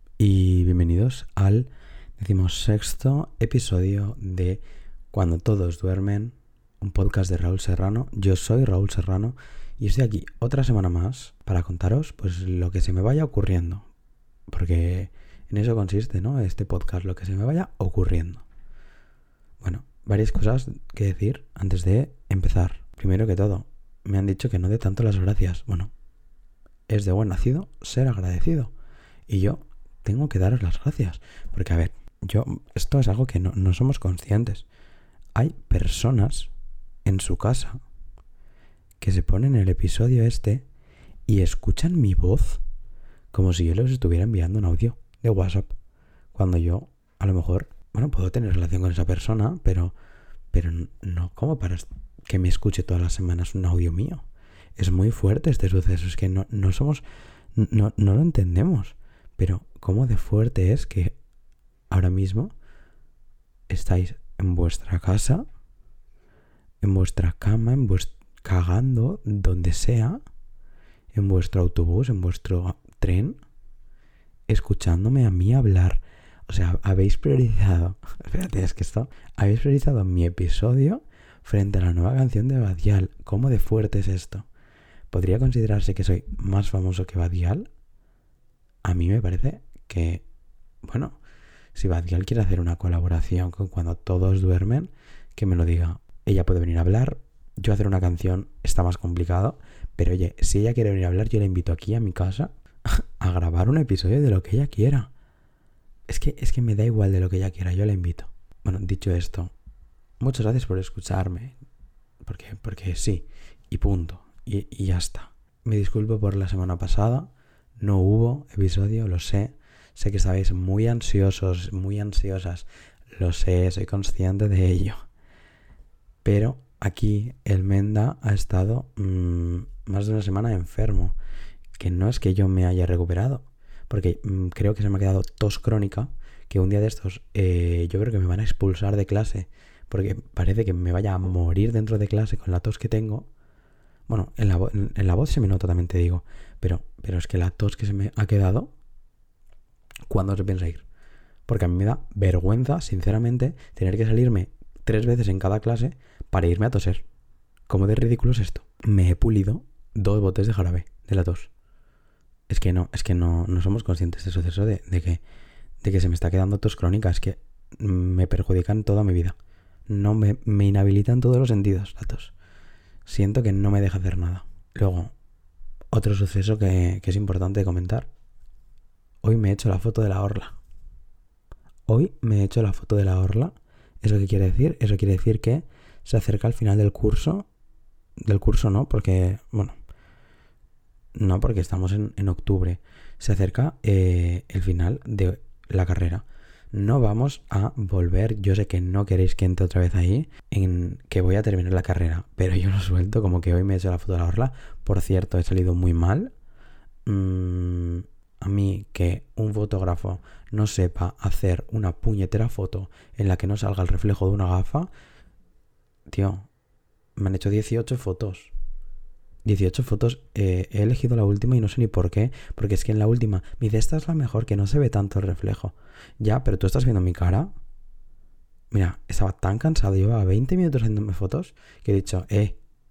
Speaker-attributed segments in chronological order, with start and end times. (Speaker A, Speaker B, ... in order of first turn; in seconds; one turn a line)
Speaker A: 0.2-13.9
Speaker A: 14.5-18.4
Speaker A: 19.6-25.9
Speaker A: 26.9-28.7
Speaker A: 29.3-34.6
Speaker A: 35.3-36.5
Speaker A: 37.0-37.8
Speaker A: 39.0-40.6
Speaker A: 41.3-42.6
Speaker A: 43.3-45.7
Speaker A: 46.3-49.9
Speaker A: 50.5-54.2
Speaker A: 54.8-61.1
Speaker A: 61.9-62.5
Speaker A: 63.7-65.4
Speaker A: 66.8-70.2
Speaker A: 71.1-73.4
Speaker A: 74.5-84.5
Speaker A: 85.1-87.7
Speaker A: 88.8-90.2
Speaker A: 90.8-91.2
Speaker A: 91.7-105.1
Speaker A: 106.1-109.5
Speaker A: 110.2-111.5
Speaker A: 112.2-125.0
Speaker A: 126.2-131.2
Speaker A: 131.8-143.3
Speaker A: 144.1-148.7
Speaker A: 150.1-150.8
Speaker A: 151.4-157.0
Speaker A: 157.7-161.5
Speaker A: 162.5-165.2
Speaker A: 165.8-172.3
Speaker A: 173.0-175.1
Speaker A: 175.9-178.1
Speaker A: 179.2-180.6
Speaker A: 181.9-187.5
Speaker A: 188.2-189.8
Speaker A: 191.1-206.3
Speaker A: 207.1-214.9
Speaker A: 216.1-216.5
Speaker A: 217.2-218.5
Speaker A: 219.4-227.5
Speaker A: 228.7-232.6